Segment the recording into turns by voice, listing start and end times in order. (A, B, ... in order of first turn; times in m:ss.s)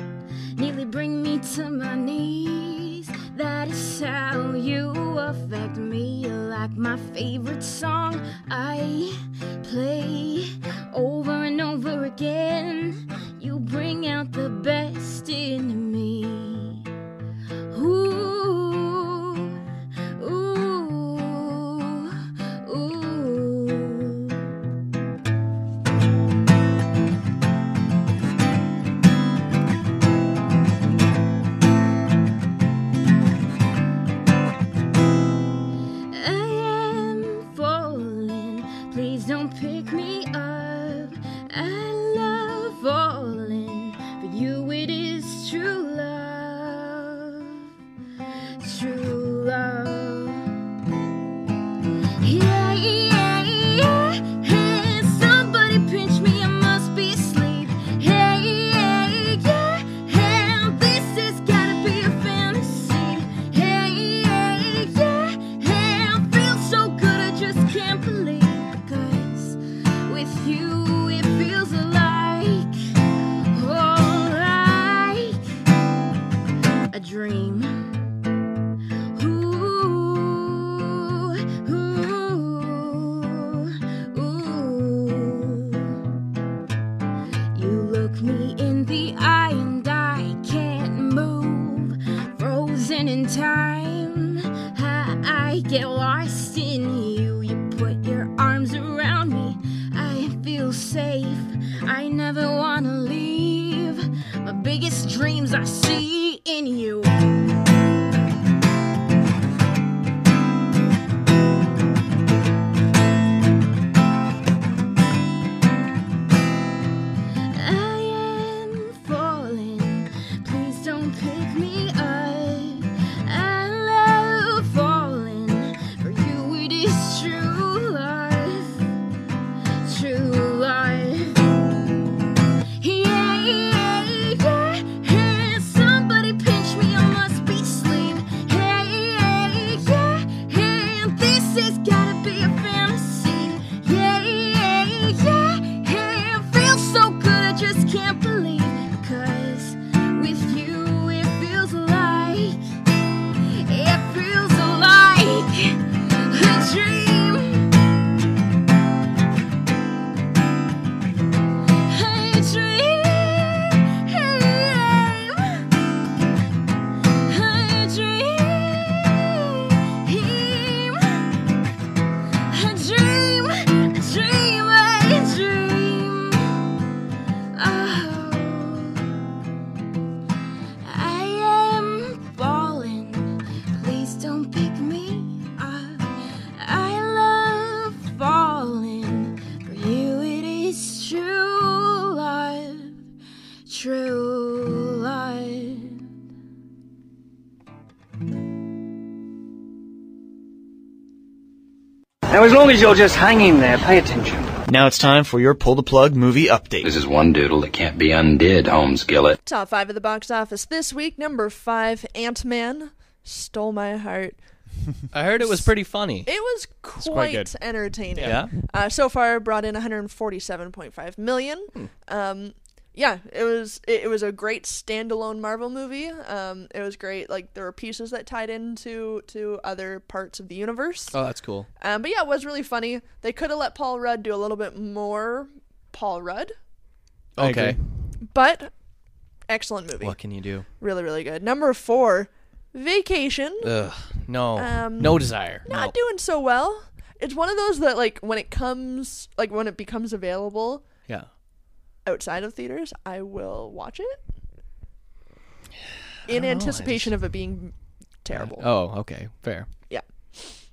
0:00.6-0:16.8 A
0:17.7-0:19.6 A
0:20.2-0:24.4 A
0:36.1-0:47.6 A
0:48.6-0:50.6 A
0:52.2-1:12.7 A
1:13.5-1:15.4 A
1:16.9-1:18.0 A
1:19.1-1:26.0 A
1:27.5-1:47.2 A
1:57.5-2:08.8 A
2:09.8-2:11.4 A
2:12.8-2:32.6 A
2:33.6-2:37.7 A
2:41.9-2:45.6 A
2:47.2-2:51.2 A
2:52.5-2:56.6 A
2:57.5-2:59.1 A
3:00.8-3:13.0 A
3:13.7-3:16.0 A
3:22.3-3:24.5 B
3:24.7-3:26.9 C
3:26.8-3:29.4 D
3:29.4-3:34.4 E
3:35.1-3:36.3 F
3:36.2-3:51.1 E
3:37.0-3:37.5 C
3:38.1-3:38.4 C
3:38.2-3:38.5 F
3:51.1-3:51.7 F
3:51.8-3:56.5 E
3:57.4-3:57.8 F
3:57.4-3:57.8 C
3:58.3-3:58.7 E
3:59.5-4:00.2 E
4:00.0-4:00.7 F
4:00.7-4:03.7 E
4:03.6-4:05.9 F
4:04.6-4:10.8 E
4:12.0-4:14.2 E
4:16.2-4:17.1 F
4:16.3-4:18.6 E
4:18.4-4:19.7 F
4:19.9-4:20.5 E